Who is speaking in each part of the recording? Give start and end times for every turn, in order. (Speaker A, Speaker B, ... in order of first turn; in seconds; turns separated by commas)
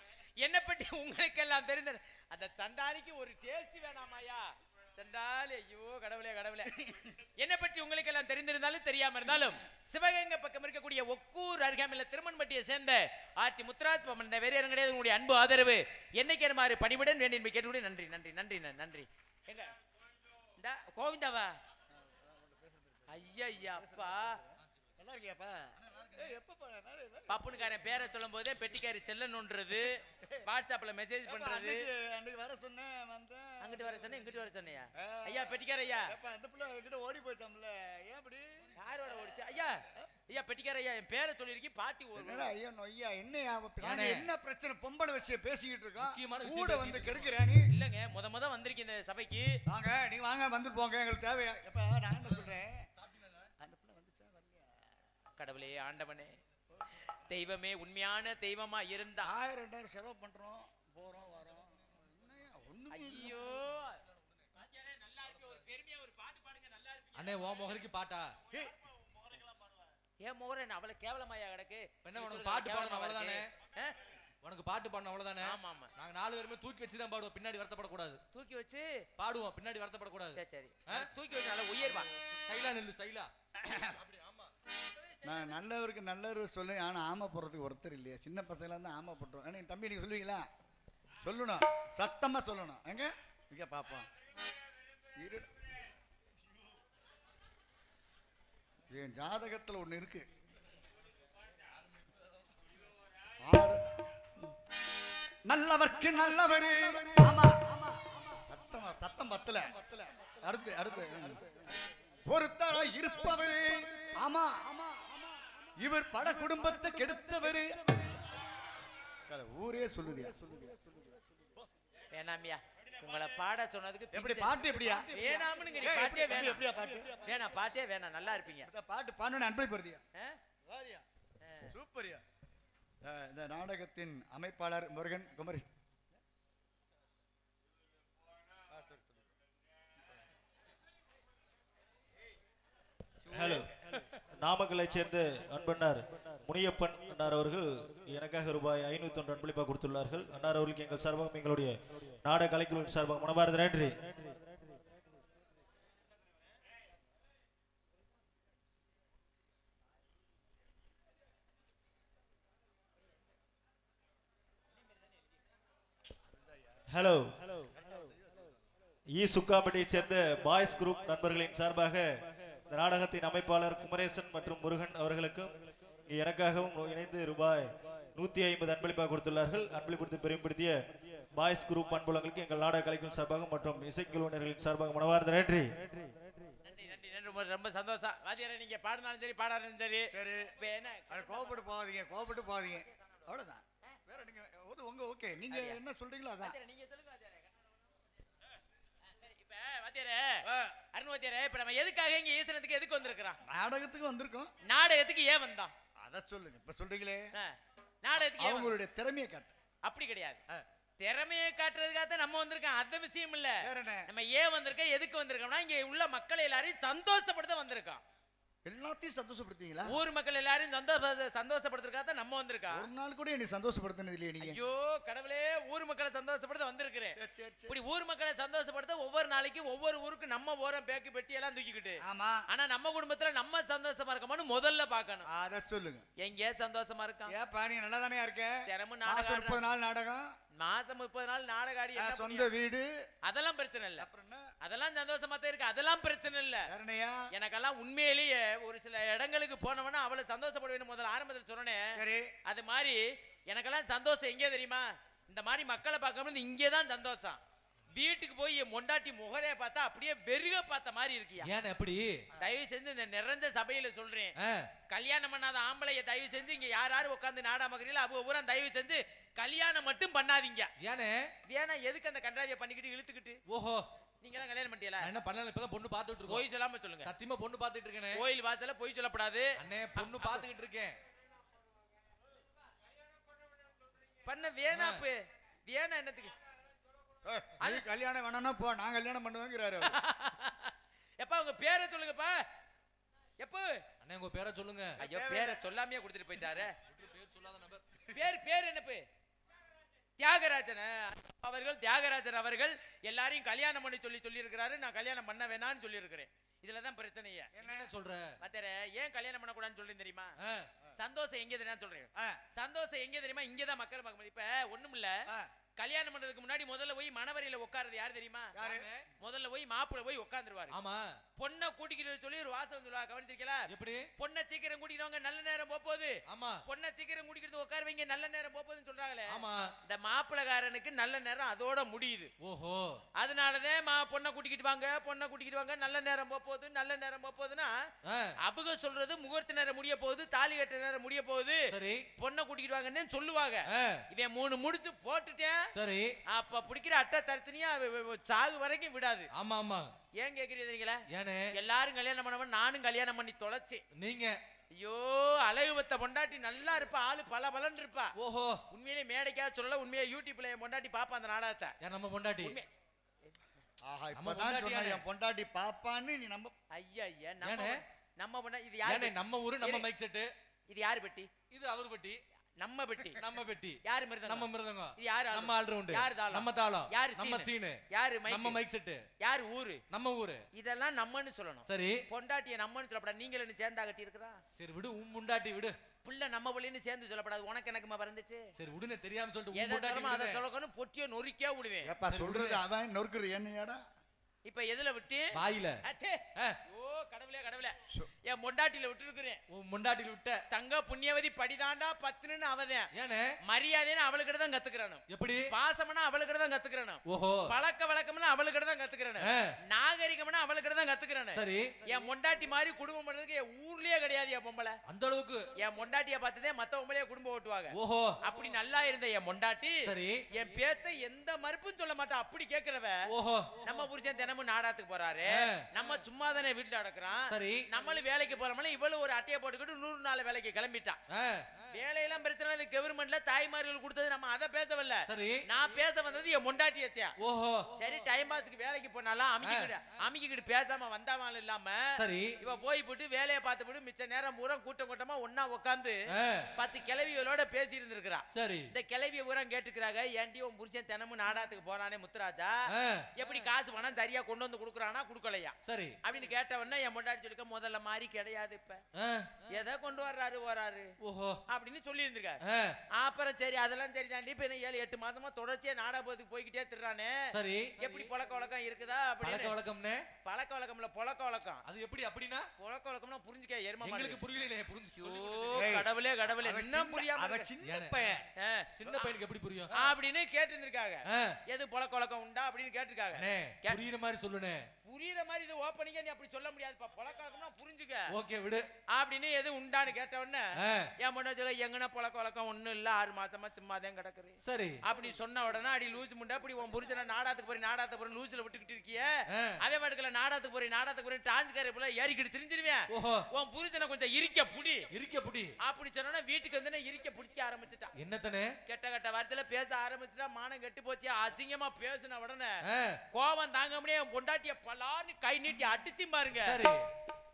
Speaker A: 0.4-19.7, Speaker B: 6.7-7.2, Speaker A: 20.6-21.6, Speaker B: 22.0-23.2, Speaker A: 23.1-24.4, Speaker B: 23.8-24.3, Speaker B: 25.0-27.5, Speaker A: 27.3-31.9, Speaker B: 30.2-30.4, Speaker B: 31.3-34.1, Speaker A: 33.6-36.1, Speaker B: 35.0-35.6, Speaker B: 36.1-38.7, Speaker A: 38.8-42.5, Speaker B: 42.2-47.7, Speaker C: 43.8-44.3, Speaker C: 46.0-47.3, Speaker A: 47.7-49.5, Speaker B: 49.7-52.9, Speaker C: 53.0-53.5, Speaker B: 53.6-54.7, Speaker A: 55.4-56.4, Speaker A: 57.1-59.3, Speaker B: 59.2-63.5, Speaker A: 62.9-64.0, Speaker C: 64.0-64.4, Speaker A: 64.5-67.7, Speaker C: 67.2-68.3, Speaker A: 70.2-74.0, Speaker C: 72.0-73.5, Speaker C: 74.4-78.2, Speaker A: 75.4-75.9, Speaker A: 78.3-79.0, Speaker C: 79.2-81.1, Speaker A: 80.3-82.1, Speaker C: 82.2-83.3, Speaker B: 83.6-84.0, Speaker C: 83.8-84.5, Speaker A: 84.8-85.5, Speaker B: 85.2-90.5, Speaker B: 91.2-94.1, Speaker B: 95.2-95.5, Speaker B: 98.9-100.3, Speaker B: 103.4-103.8, Speaker B: 105.5-115.2, Speaker B: 115.8-118.4, Speaker B: 119.3-121.6, Speaker A: 122.1-126.7, Speaker B: 124.1-127.4, Speaker A: 127.2-128.7, Speaker B: 128.5-130.0, Speaker B: 130.7-131.0, Speaker A: 131.4-131.7, Speaker B: 131.7-132.2, Speaker B: 133.0-135.7, Speaker B: 138.7-139.3, Speaker A: 143.3-144.1, Speaker D: 143.3-143.7, Speaker D: 144.3-154.4, Speaker B: 166.3-166.8, Speaker D: 166.9-167.7, Speaker B: 167.8-168.5, Speaker D: 169.1-172.1, Speaker D: 172.7-186.1, Speaker A: 186.7-191.6, Speaker B: 190.1-190.5, Speaker B: 191.1-196.6, Speaker A: 192.8-193.2, Speaker A: 195.5-195.8, Speaker A: 196.4-197.5, Speaker A: 199.0-203.4, Speaker B: 200.5-200.8, Speaker B: 203.5-204.5, Speaker A: 204.7-205.7, Speaker B: 206.0-207.3, Speaker A: 207.3-208.8, Speaker B: 208.2-209.5, Speaker A: 209.8-210.4, Speaker A: 211.0-218.0, Speaker B: 213.6-214.1, Speaker B: 218.7-220.0, Speaker A: 219.8-222.9, Speaker B: 222.7-224.6, Speaker A: 224.4-227.2, Speaker B: 227.2-227.8, Speaker A: 227.7-235.3, Speaker B: 232.0-232.4, Speaker B: 235.3-236.1, Speaker A: 236.2-237.3, Speaker B: 237.3-240.3, Speaker A: 238.7-239.6, Speaker A: 240.6-242.5, Speaker B: 241.9-242.9, Speaker A: 243.2-244.1, Speaker B: 244.0-244.5, Speaker A: 244.6-246.7, Speaker B: 246.7-247.2, Speaker A: 247.3-257.4, Speaker B: 251.9-252.3, Speaker A: 257.9-261.5, Speaker C: 261.4-262.2, Speaker A: 262.4-264.3, Speaker C: 264.4-264.7, Speaker A: 264.9-270.7, Speaker C: 270.8-271.2, Speaker A: 271.5-273.4, Speaker C: 273.5-273.8, Speaker A: 274.2-275.1, Speaker C: 275.0-276.4, Speaker A: 276.3-277.1, Speaker C: 277.0-278.2, Speaker A: 278.1-280.5, Speaker C: 279.6-280.9, Speaker A: 284.2-286.3, Speaker C: 284.7-285.0, Speaker B: 287.2-289.9, Speaker A: 289.8-292.4, Speaker A: 293.4-293.8, Speaker C: 294.0-295.0, Speaker B: 295.0-295.6, Speaker A: 295.0-296.7, Speaker C: 296.8-297.8, Speaker A: 298.1-299.0, Speaker A: 300.2-307.5, Speaker B: 307.5-307.9, Speaker C: 307.6-308.3, Speaker A: 308.4-310.3, Speaker C: 310.4-310.7, Speaker A: 310.9-315.2, Speaker A: 315.8-318.6, Speaker B: 318.6-318.9, Speaker C: 318.6-319.1, Speaker A: 319.2-320.8, Speaker C: 320.7-321.2, Speaker A: 321.4-332.3, Speaker C: 323.7-324.1, Speaker C: 326.3-326.6, Speaker C: 329.3-329.7, Speaker C: 332.4-333.0, Speaker A: 333.2-337.7, Speaker C: 338.1-338.3, Speaker A: 338.4-345.6, Speaker C: 341.7-342.1, Speaker C: 343.7-344.0, Speaker C: 345.7-346.1, Speaker A: 346.3-349.3, Speaker C: 349.4-349.9, Speaker A: 350.2-351.0, Speaker C: 351.1-351.5, Speaker A: 351.5-353.8, Speaker C: 354.0-354.4, Speaker A: 354.8-358.1, Speaker C: 358.2-358.6, Speaker A: 358.7-361.8, Speaker C: 361.8-362.6, Speaker A: 362.4-362.7, Speaker B: 363.8-366.5, Speaker C: 364.1-365.0, Speaker A: 366.7-369.9, Speaker C: 367.4-367.7, Speaker C: 368.9-370.3, Speaker A: 370.7-371.3, Speaker C: 371.5-372.2, Speaker A: 372.6-373.2, Speaker C: 373.2-379.0, Speaker A: 373.9-378.6, Speaker A: 379.2-379.8, Speaker C: 379.9-380.4, Speaker A: 380.5-384.4, Speaker C: 381.7-382.0, Speaker C: 384.6-385.8, Speaker A: 386.0-388.4, Speaker C: 388.6-390.4, Speaker A: 389.5-391.9, Speaker B: 391.8-393.8, Speaker C: 392.1-392.6, Speaker A: 394.4-397.8, Speaker C: 395.4-395.8, Speaker A: 398.3-399.4, Speaker C: 399.5-400.4, Speaker A: 400.5-402.9, Speaker C: 402.9-403.3, Speaker A: 403.4-414.8, Speaker C: 405.1-405.5, Speaker C: 407.1-407.4, Speaker C: 409.2-409.5, Speaker C: 411.3-412.1, Speaker C: 414.9-415.6, Speaker A: 415.6-423.1, Speaker C: 417.7-418.5, Speaker C: 419.9-420.2, Speaker C: 423.1-423.9, Speaker A: 423.6-431.0, Speaker C: 425.4-426.0, Speaker C: 427.3-427.6, Speaker C: 431.1-431.7, Speaker A: 431.7-437.1, Speaker C: 435.1-435.4, Speaker C: 437.2-437.7, Speaker A: 437.8-441.9, Speaker C: 439.4-439.7, Speaker C: 441.9-442.4, Speaker A: 442.4-446.0, Speaker C: 446.1-446.5, Speaker A: 446.6-452.6, Speaker C: 448.3-448.7, Speaker C: 452.7-453.2, Speaker A: 453.2-458.8, Speaker C: 455.6-456.0, Speaker C: 459.0-459.5, Speaker A: 459.5-460.9, Speaker C: 461.0-461.4, Speaker A: 461.5-462.4, Speaker C: 462.4-462.8, Speaker A: 462.9-467.2, Speaker C: 467.3-468.1, Speaker A: 467.8-469.6, Speaker C: 469.2-470.0, Speaker A: 470.2-471.6, Speaker C: 471.7-472.5, Speaker A: 472.6-474.2, Speaker C: 473.8-475.8, Speaker A: 475.0-477.5, Speaker B: 475.5-478.2, Speaker C: 477.6-478.2, Speaker A: 478.4-479.1, Speaker C: 478.8-479.7, Speaker A: 479.7-483.8, Speaker C: 481.1-481.4, Speaker C: 483.1-484.6, Speaker A: 484.8-488.1, Speaker C: 488.1-488.7, Speaker A: 488.9-490.5, Speaker C: 490.6-490.9, Speaker A: 491.0-499.1, Speaker C: 494.4-494.8, Speaker A: 499.6-504.9, Speaker C: 502.9-503.2, Speaker C: 504.9-505.5, Speaker A: 505.6-507.9, Speaker C: 508.0-508.5, Speaker A: 508.7-512.6, Speaker C: 512.6-513.0, Speaker A: 513.1-516.6, Speaker C: 516.4-516.8